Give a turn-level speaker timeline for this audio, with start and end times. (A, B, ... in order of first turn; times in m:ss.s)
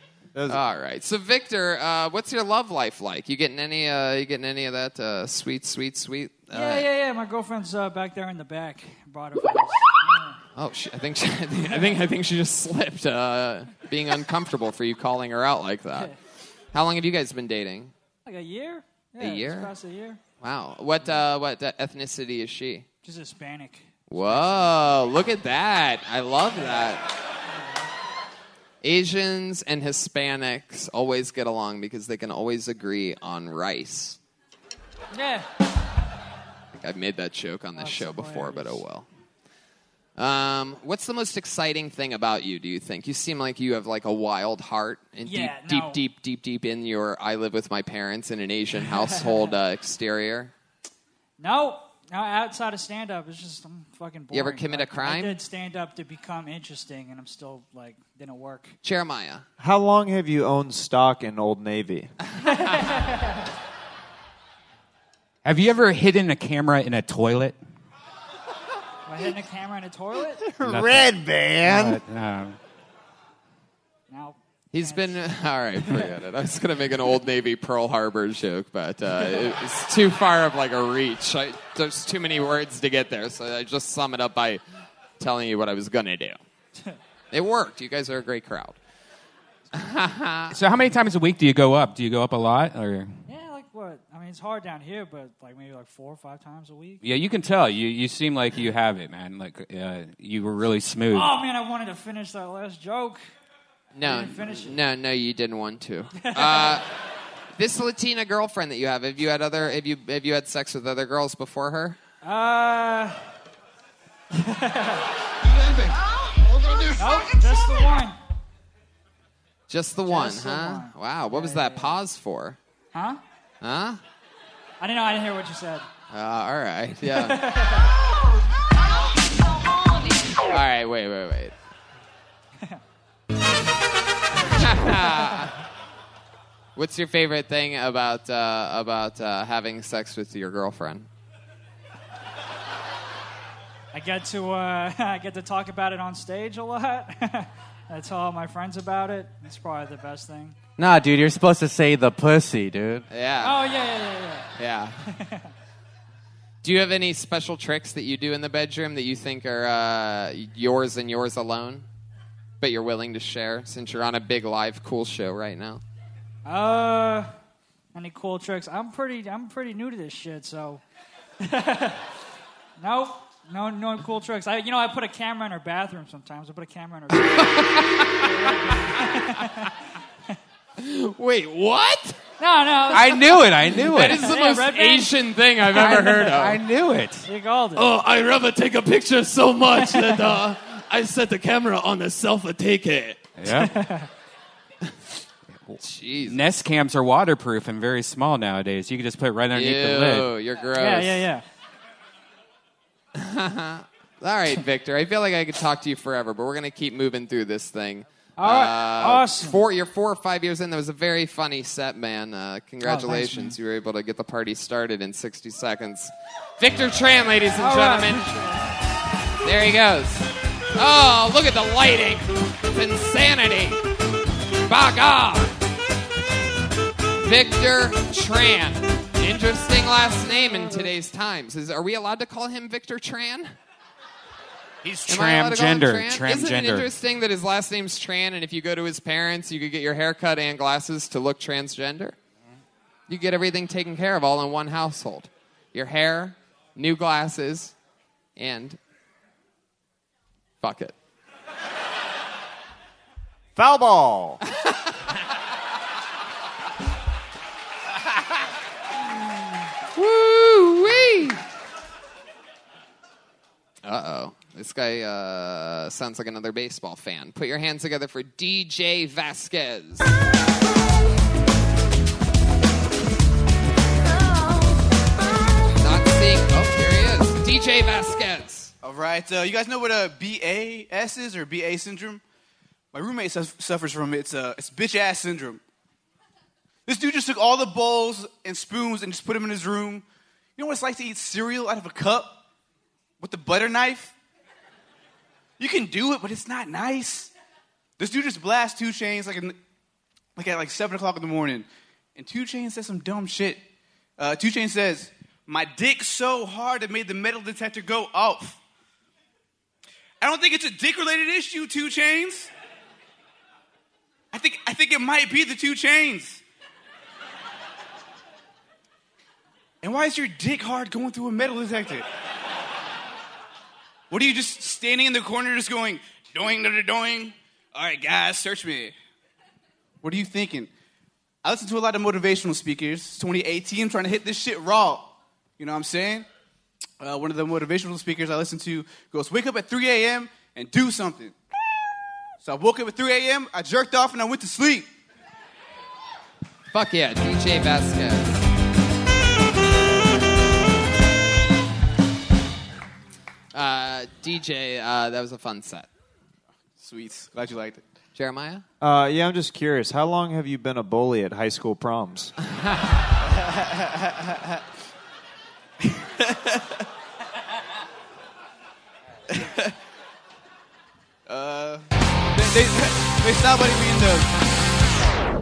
0:00.3-0:00.6 A
0:00.5-0:06.8 B
0:06.5-0:10.4 C
0:10.6-0:16.1 B
0:16.7-0:17.9 B
0:18.2-0:20.2 C
0:19.2-0:19.7 B
0:20.4-0:22.8 B
0:23.0-0:24.7 C
0:24.1-0:27.0 B
0:28.8-0:34.2 B
0:35.1-0:35.4 C
0:36.7-0:39.0 B
0:37.8-0:38.8 C
0:40.2-0:50.5 B
0:45.2-0:46.0 C
0:48.9-0:49.5 C
0:51.4-0:58.8 C
0:54.3-0:55.4 B
0:58.8-0:59.4 B
0:59.6-1:02.1 A
1:02.4-1:03.4 C
1:05.4-1:07.6 D
1:09.1-1:10.4 C
1:10.6-1:12.0 A
1:10.6-1:11.1 D
1:11.6-1:12.6 D
1:14.1-1:15.2 C
1:14.7-1:24.6 B
1:25.2-1:26.4 B
1:27.3-1:28.8 B
1:29.7-1:30.6 B
1:30.5-1:33.1 D
1:33.3-1:37.0 C
1:37.0-1:41.3 D
1:41.1-1:43.2 C
1:43.9-1:46.8 B
1:44.0-1:44.8 C
1:46.2-1:46.8 C
1:47.6-1:52.0 B
1:52.2-1:53.2 C
1:54.3-1:55.1 C
1:57.0-1:58.2 C
1:59.7-2:02.6 B
2:00.1-2:02.0 C
2:02.9-2:03.2 C
2:03.6-2:04.0 B
2:04.8-2:05.9 C
2:06.1-2:07.4 B
2:07.1-2:07.9 C
2:10.4-2:11.5 B
2:14.4-2:15.5 B
2:16.8-2:21.1 B
2:23.9-2:30.6 C
2:30.8-2:33.0 E
2:33.1-2:33.6 B
2:33.4-2:34.5 C
2:34.6-2:35.0 B
2:35.1-2:35.5 C
2:36.6-2:41.8 B
2:42.6-2:45.8 B
2:46.4-2:47.3 C
2:47.9-2:50.8 C
2:51.4-2:52.0 C
2:52.8-2:59.7 C
2:57.3-2:58.3 B
3:00.8-3:02.2 B
3:02.4-3:05.1 C
3:02.9-3:04.2 D
3:03.7-3:06.6 B
3:05.7-3:07.2 D
3:05.8-3:06.2 C
3:07.2-3:07.9 C
3:07.8-3:13.3 F
3:09.8-3:10.3 C
3:13.4-3:13.7 D
3:13.5-3:14.1 C
3:15.7-3:20.3 D
3:15.8-3:16.4 B
3:19.5-3:21.2 B
3:20.8-3:21.4 C
3:23.1-3:38.4 B
3:28.4-3:29.6 C
3:32.8-3:33.6 C
3:37.6-3:38.7 C
3:39.4-3:43.8 B
3:44.7-3:45.5 B
3:47.2-3:53.5 B
3:54.8-3:56.9 D
3:55.1-4:02.2 B
4:03.1-4:07.7 B
4:08.4-4:08.8 B
4:10.6-4:10.9 B
4:13.6-4:14.4 A
4:19.9-4:21.4 B
4:23.8-4:30.2 B
4:35.8-4:38.7 B
4:38.8-4:42.2 G
4:42.9-4:45.6 G
4:46.9-4:50.0 G
4:50.6-4:52.4 G
4:53.2-4:54.1 G
4:55.6-4:57.3 G
4:58.0-4:59.6 G
5:00.4-5:03.6 G
5:04.2-5:08.6 G
5:10.2-5:12.5 G
5:14.3-5:16.4 G
5:19.8-5:22.0 G
5:24.1-5:28.9 G
5:30.0-5:30.7 G
5:31.4-5:36.2 G
5:37.0-5:41.3 G
5:42.4-5:44.9 G
5:46.7-5:48.4 B
5:53.5-5:55.9 B
5:56.8-5:57.8 G
5:58.2-5:58.6 B
5:58.8-6:02.3 A
6:03.3-6:04.6 G
6:05.8-6:06.8 G
6:09.3-6:09.7 G
6:11.3-6:14.3 G